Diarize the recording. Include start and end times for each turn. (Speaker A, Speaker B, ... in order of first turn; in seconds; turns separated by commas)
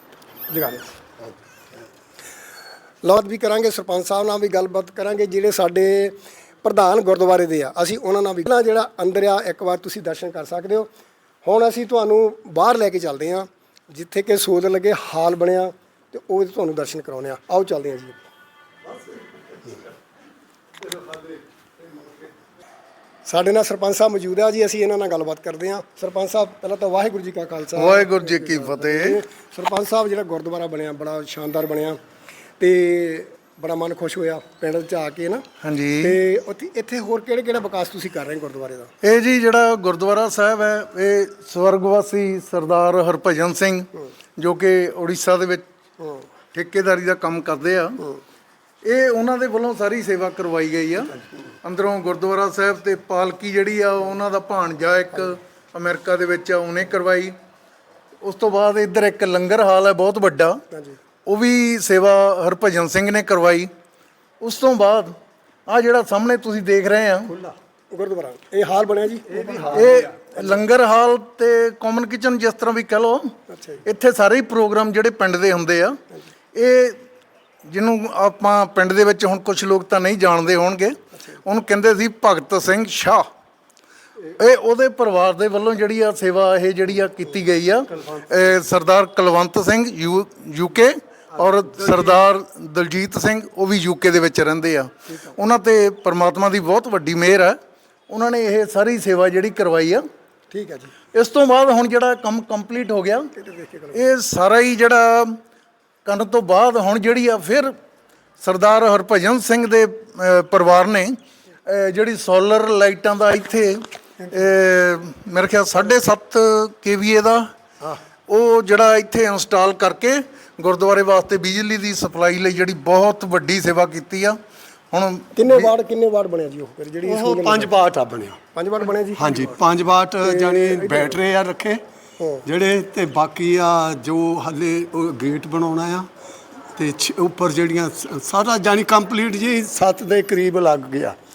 Speaker A: 0.5-1.0, Speaker A: 3.0-10.9, Speaker A: 11.4-18.2, Speaker A: 23.2-32.0, Speaker B: 27.8-29.2, Speaker A: 32.6-35.5, Speaker B: 35.6-36.2, Speaker A: 36.0-38.9, Speaker B: 39.0-45.6, Speaker B: 46.5-48.0, Speaker B: 48.8-51.1, Speaker B: 51.6-57.4, Speaker B: 58.2-60.6, Speaker A: 60.7-61.0, Speaker B: 61.3-63.7, Speaker B: 64.4-65.1, Speaker B: 65.7-67.3, Speaker A: 67.9-70.1, Speaker C: 69.3-70.0, Speaker B: 69.7-73.3, Speaker A: 73.5-73.8, Speaker B: 73.8-76.0, Speaker B: 76.5-77.0, Speaker B: 77.7-83.3, Speaker B: 84.3-97.6, Speaker A: 95.1-95.4, Speaker B: 98.1-100.0, Speaker A: 100.5-100.9, Speaker B: 101.1-103.3, Speaker A: 103.3-104.1, Speaker B: 103.9-105.4, Speaker B: 106.0-107.7, Speaker B: 108.4-117.5, Speaker B: 118.3-124.4, Speaker B: 124.9-125.7, Speaker A: 125.4-127.7, Speaker C: 127.0-128.4, Speaker A: 128.6-129.5, Speaker C: 129.2-131.8, Speaker A: 130.2-131.2, Speaker A: 132.2-132.4, Speaker C: 132.5-136.1, Speaker C: 136.8-141.2